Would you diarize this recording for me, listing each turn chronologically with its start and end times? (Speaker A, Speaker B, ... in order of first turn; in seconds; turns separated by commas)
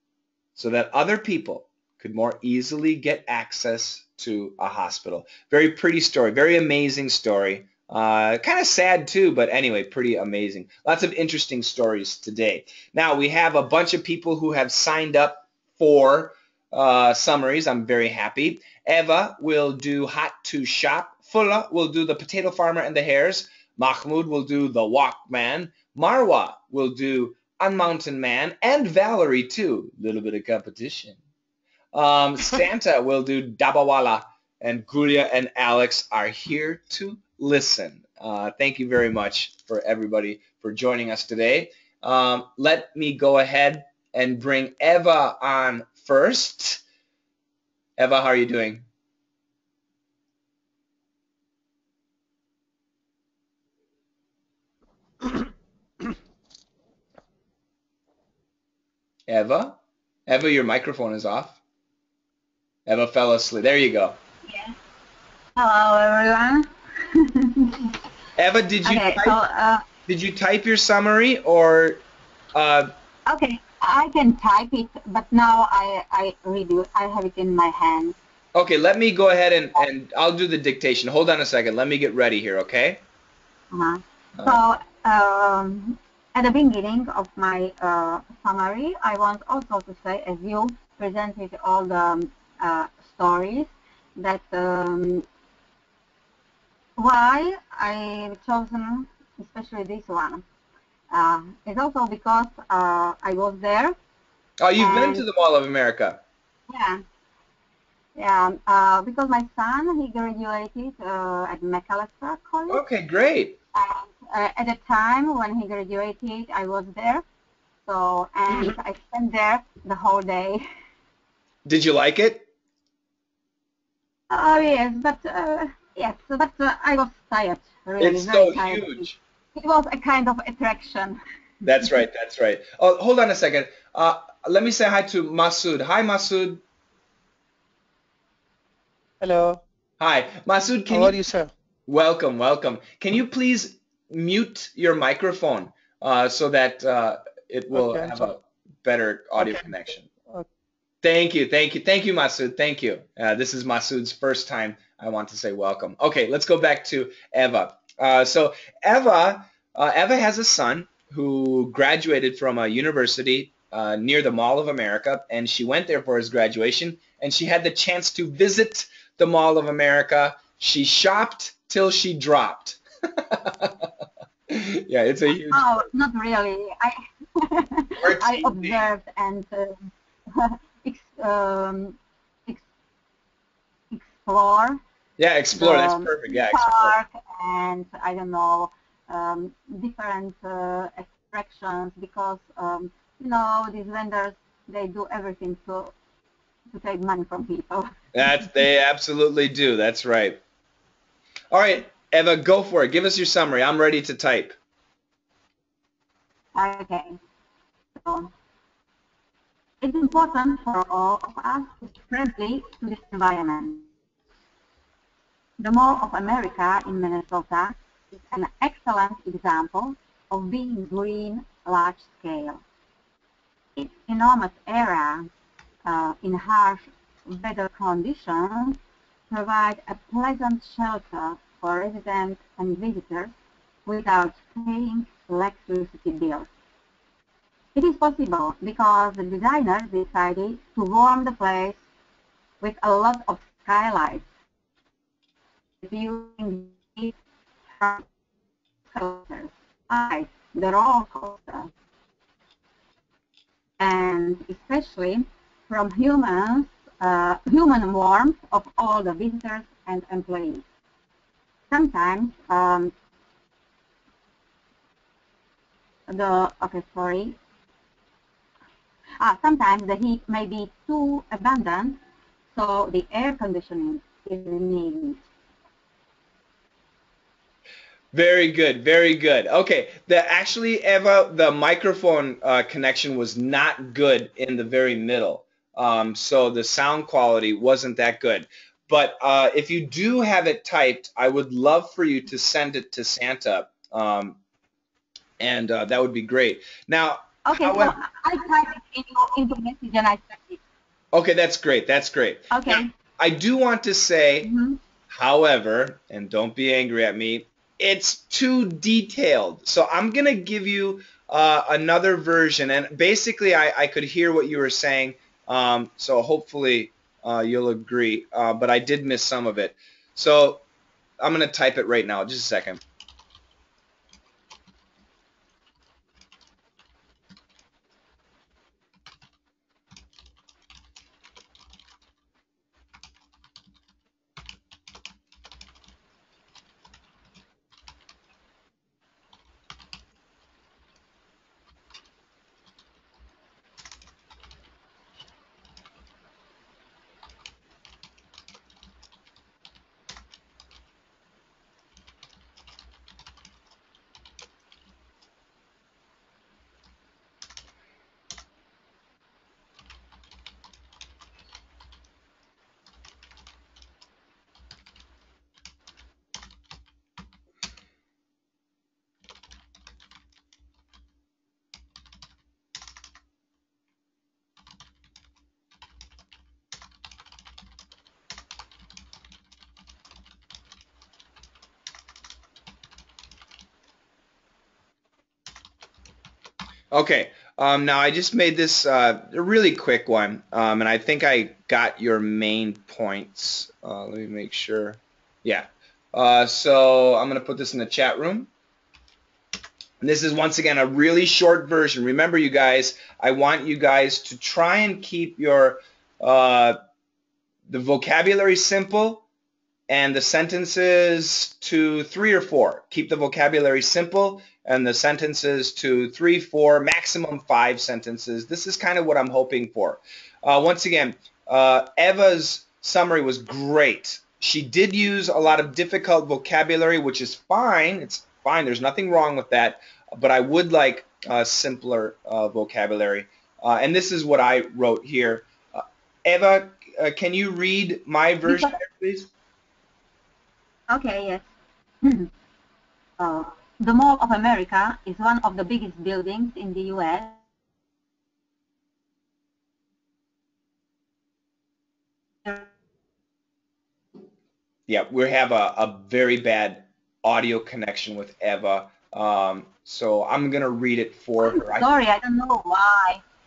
Speaker A: 0.6-31.2, Speaker A: 31.9-46.8, Speaker A: 48.0-48.8, Speaker A: 59.3-61.6, Speaker A: 62.9-64.2, Speaker B: 64.5-64.8, Speaker B: 65.5-67.9, Speaker A: 68.4-69.4, Speaker B: 68.8-69.8, Speaker A: 70.1-72.9, Speaker B: 73.2-78.2, Speaker A: 78.5-83.0, Speaker B: 83.7-95.2, Speaker B: 97.0-100.5, Speaker B: 101.1-104.0, Speaker A: 104.6-106.2, Speaker B: 104.8-105.2, Speaker B: 106.7-107.0, Speaker B: 108.2-112.8, Speaker A: 112.7-113.6, Speaker B: 113.7-117.2, Speaker B: 117.8-120.6, Speaker A: 121.6-122.5, Speaker B: 124.3-131.2, Speaker A: 128.0-129.2, Speaker A: 131.6-136.6, Speaker C: 139.2-139.6, Speaker A: 140.0-141.2, Speaker C: 140.9-141.5, Speaker A: 141.9-150.1, Speaker C: 147.7-148.3, Speaker C: 149.4-149.7, Speaker A: 151.0-173.7, Speaker A: 174.5-175.9, Speaker B: 175.5-182.6, Speaker A: 178.0-178.8, Speaker B: 183.9-184.8, Speaker A: 185.2-187.0, Speaker B: 185.5-195.9, Speaker B: 196.7-197.9, Speaker A: 198.1-200.4, Speaker A: 201.5-204.6, Speaker B: 206.5-207.2, Speaker B: 207.9-208.3, Speaker B: 209.8-213.9, Speaker B: 215.6-222.6, Speaker B: 223.8-225.3, Speaker B: 225.8-228.8, Speaker B: 229.3-233.3, Speaker B: 233.8-236.5, Speaker B: 237.7-241.8, Speaker B: 242.6-244.2, Speaker B: 245.8-247.1, Speaker B: 247.8-248.0, Speaker B: 248.9-251.7, Speaker B: 253.8-260.6, Speaker B: 261.7-262.9, Speaker B: 266.1-267.4, Speaker B: 269.2-272.0, Speaker B: 272.5-275.2, Speaker A: 278.1-294.4, Speaker A: 295.4-297.9, Speaker B: 297.4-300.6, Speaker A: 301.1-304.5, Speaker B: 302.5-302.9, Speaker B: 304.4-304.8, Speaker A: 305.1-320.6, Speaker A: 321.2-322.8, Speaker A: 386.9-398.5, Speaker A: 400.0-406.8, Speaker A: 407.7-409.2, Speaker A: 409.9-439.3, Speaker B: 438.4-438.7, Speaker B: 440.9-441.5, Speaker B: 442.0-442.3, Speaker B: 443.2-447.4, Speaker B: 452.4-452.7, Speaker A: 454.9-461.9, Speaker B: 461.4-463.2